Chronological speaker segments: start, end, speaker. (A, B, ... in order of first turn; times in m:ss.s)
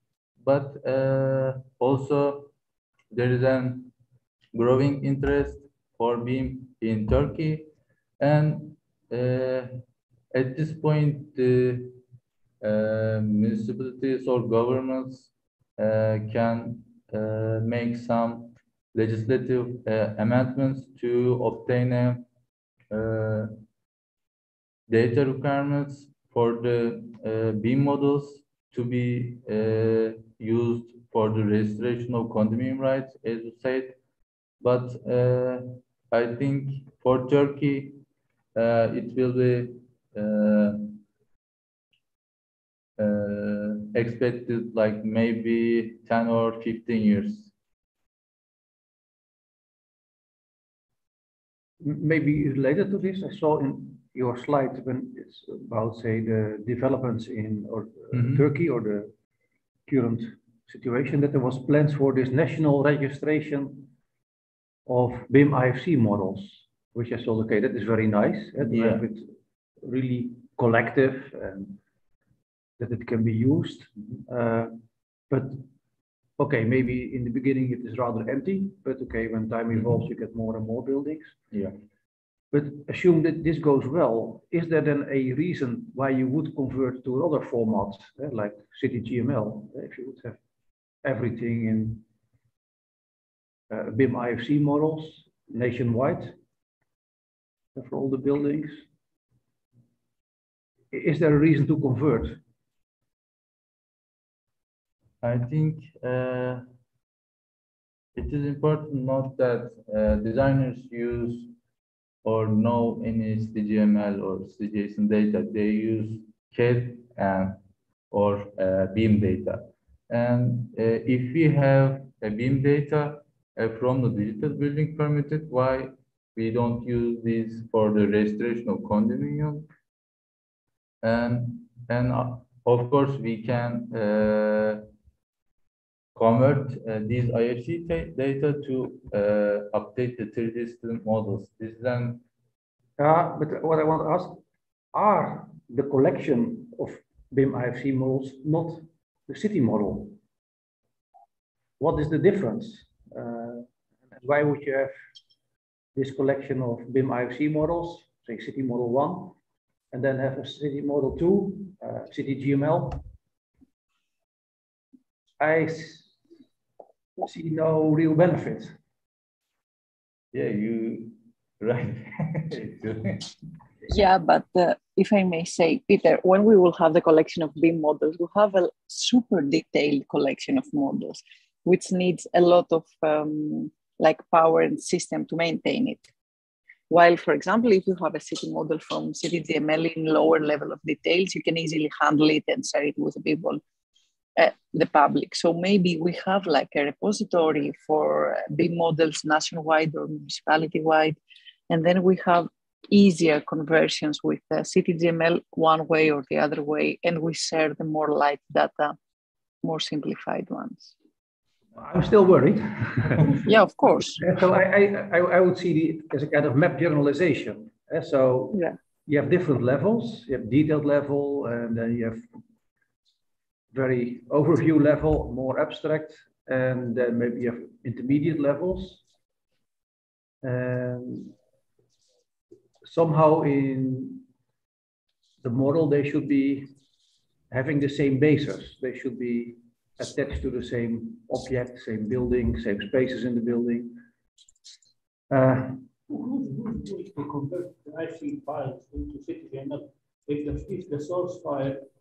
0:00.4-0:02.5 A
0:03.1-0:03.9 A
0:04.5-0:07.7 A
0:08.2-0:09.7 A
0:10.3-0:12.0 A
0:12.6-0:22.2 A
0:22.9-0:23.5 A
0:24.9-0:34.0 A
0:34.6-0:38.0 A
0:38.6-0:41.0 A
0:43.0-0:47.5 A
0:51.8-0:59.1 B
0:58.1-0:58.4 A
0:59.9-1:03.9 B
1:04.8-1:09.3 B
1:08.6-1:09.0 A
1:09.8-1:11.8 B
1:12.8-1:14.8 B
1:15.3-1:15.6 B
1:16.4-1:21.4 B
1:22.5-1:30.4 B
1:31.0-1:32.0 B
1:33.7-1:36.3 B
1:37.7-1:38.8 B
1:40.9-1:42.4 B
1:45.2-1:46.6 A
1:48.2-1:51.5 A
1:52.2-1:57.6 A
1:58.1-2:09.7 A
2:11.0-2:14.8 A
2:16.1-2:22.2 A
2:23.0-2:24.4 B
2:24.9-2:30.2 B
2:31.8-2:34.9 B
2:35.9-2:39.4 B
2:39.9-2:43.0 B
2:45.4-2:46.1 B
2:47.2-2:48.8 B
2:50.3-2:53.3 A
2:53.9-3:06.1 C
3:06.9-3:13.6 C
3:14.4-3:21.2 C
3:21.7-3:29.0 C
3:29.6-3:30.9 C
3:31.8-3:33.4 B
3:33.4-3:34.2 C
3:34.2-3:42.3 B
3:43.7-3:49.0 B
3:50.4-3:51.3 B
3:52.8-3:54.2 B
3:55.4-3:56.7 B
3:57.5-4:04.0 B
4:05.3-4:05.8 B
4:06.1-4:11.8 D